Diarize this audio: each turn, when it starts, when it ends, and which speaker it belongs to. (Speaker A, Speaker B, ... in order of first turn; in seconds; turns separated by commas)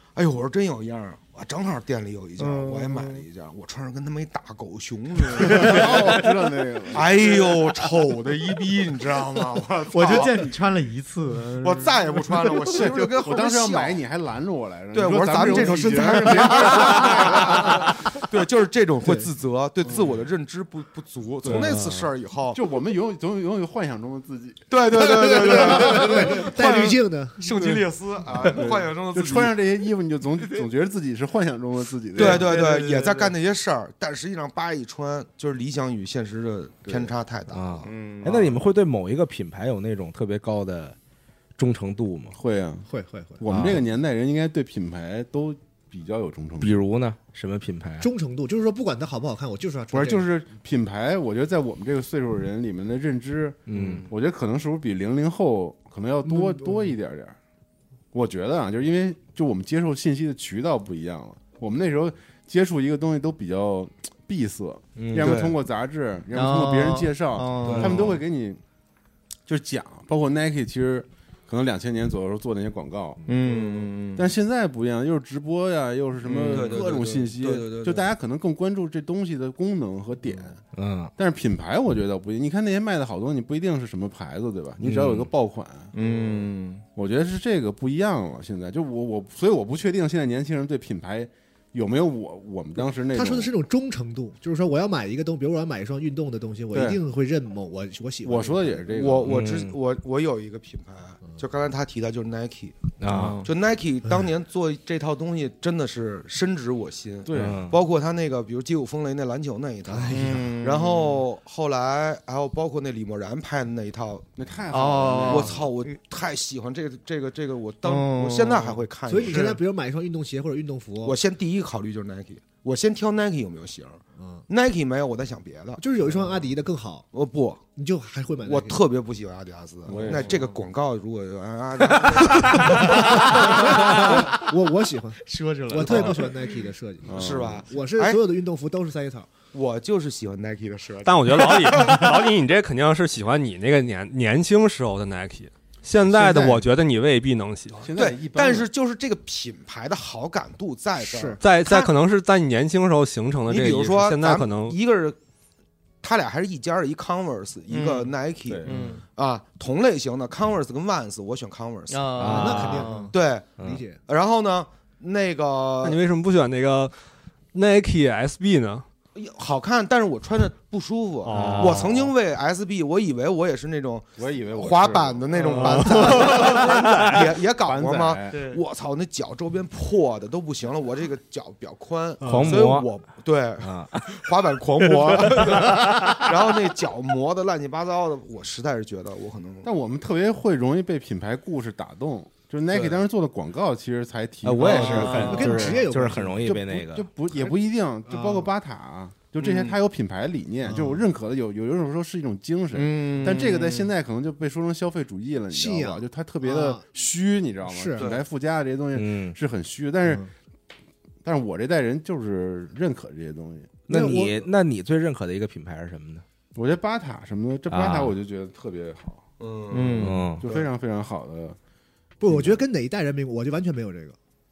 Speaker A: 0.1-6.3, Speaker B: 2.4-3.2, Speaker C: 5.4-7.3, Speaker B: 5.4-6.3, Speaker A: 6.9-10.5, Speaker B: 9.9-12.8, Speaker A: 11.6-14.0, Speaker C: 12.7-17.9, Speaker A: 14.9-22.6, Speaker D: 15.5-15.8, Speaker D: 19.0-19.3, Speaker C: 19.8-20.2, Speaker C: 21.4-22.0, Speaker E: 21.5-21.8, Speaker C: 22.5-26.5, Speaker A: 24.7-29.6, Speaker D: 25.0-27.5, Speaker C: 27.5-27.8, Speaker C: 28.4-32.6, Speaker B: 32.1-33.3, Speaker A: 32.1-38.4, Speaker C: 36.9-37.1, Speaker E: 37.5-41.0, Speaker B: 37.8-38.5, Speaker E: 41.6-42.4, Speaker C: 42.3-42.9, Speaker D: 42.9-43.6, Speaker C: 43.4-46.8, Speaker E: 43.5-43.8, Speaker E: 46.6-48.1, Speaker D: 48.0-50.3, Speaker C: 49.9-57.4, Speaker E: 53.6-54.1, Speaker A: 53.7-54.1, Speaker D: 56.2-56.9, Speaker C: 58.1-68.6, Speaker E: 65.0-65.5, Speaker A: 65.2-65.5, Speaker B: 66.3-68.2, Speaker A: 67.6-68.2, Speaker C: 69.5-73.2, Speaker B: 73.2-74.3, Speaker C: 74.1-80.6, Speaker A: 76.2-78.1, Speaker E: 80.7-81.1, Speaker C: 81.2-85.9, Speaker E: 84.8-85.3, Speaker B: 85.9-86.8, Speaker A: 86.0-86.3, Speaker C: 86.9-93.5, Speaker D: 92.9-99.0, Speaker C: 96.7-97.0, Speaker C: 98.2-99.5, Speaker A: 98.9-102.8, Speaker E: 99.2-99.8, Speaker E: 103.0-103.4, Speaker B: 103.1-103.5, Speaker A: 103.4-114.3, Speaker C: 107.2-107.7, Speaker E: 107.3-107.8, Speaker D: 109.9-110.6, Speaker B: 110.0-111.2, Speaker C: 114.3-115.7, Speaker B: 114.7-115.9, Speaker A: 115.3-119.6, Speaker B: 117.8-118.8, Speaker D: 119.1-121.2, Speaker A: 121.0-126.2, Speaker D: 124.2-124.4, Speaker D: 125.8-127.1, Speaker A: 127.1-127.6, Speaker D: 127.7-128.8, Speaker A: 128.4-133.8, Speaker C: 129.8-130.4, Speaker B: 130.1-130.6, Speaker D: 132.8-139.3, Speaker B: 135.2-136.3, Speaker A: 135.7-136.3, Speaker C: 137.1-137.6, Speaker A: 137.1-138.2, Speaker A: 139.5-142.2, Speaker F: 141.0-147.9, Speaker D: 146.1-146.7, Speaker C: 147.8-148.7, Speaker A: 147.9-151.9, Speaker D: 151.0-151.4, Speaker F: 151.4-154.8, Speaker A: 153.5-155.2, Speaker A: 156.0-162.5, Speaker B: 157.7-159.0, Speaker C: 158.5-158.9, Speaker B: 161.9-163.1, Speaker E: 162.2-162.9, Speaker D: 162.2-164.0, Speaker A: 163.1-166.0, Speaker F: 165.8-166.9, Speaker F: 167.5-168.8, Speaker A: 169.1-189.7, Speaker F: 171.2-171.9, Speaker E: 171.3-172.0, Speaker C: 174.2-178.4, Speaker F: 175.4-177.1, Speaker B: 175.6-176.6, Speaker B: 178.3-178.6, Speaker E: 182.2-182.9, Speaker E: 183.6-184.2, Speaker E: 184.8-185.8, Speaker C: 189.6-195.7, Speaker A: 192.7-193.0, Speaker E: 194.4-197.1, Speaker D: 194.6-196.4, Speaker B: 194.7-195.5, Speaker A: 194.7-195.4, Speaker C: 196.4-210.2, Speaker D: 197.3-198.5, Speaker A: 199.4-199.7, Speaker D: 200.6-201.1, Speaker B: 202.7-203.9, Speaker D: 205.5-206.9, Speaker D: 207.7-208.1, Speaker A: 208.0-208.2, Speaker E: 208.9-209.3, Speaker D: 210.0-210.3, Speaker C: 211.2-213.9, Speaker E: 213.9-216.2, Speaker D: 213.9-214.4, Speaker C: 216.5-219.2, Speaker E: 217.7-218.1, Speaker A: 219.4-220.7, Speaker B: 219.7-220.2, Speaker E: 220.0-220.4, Speaker C: 220.0-221.6, Speaker D: 222.2-224.2, Speaker C: 222.2-222.6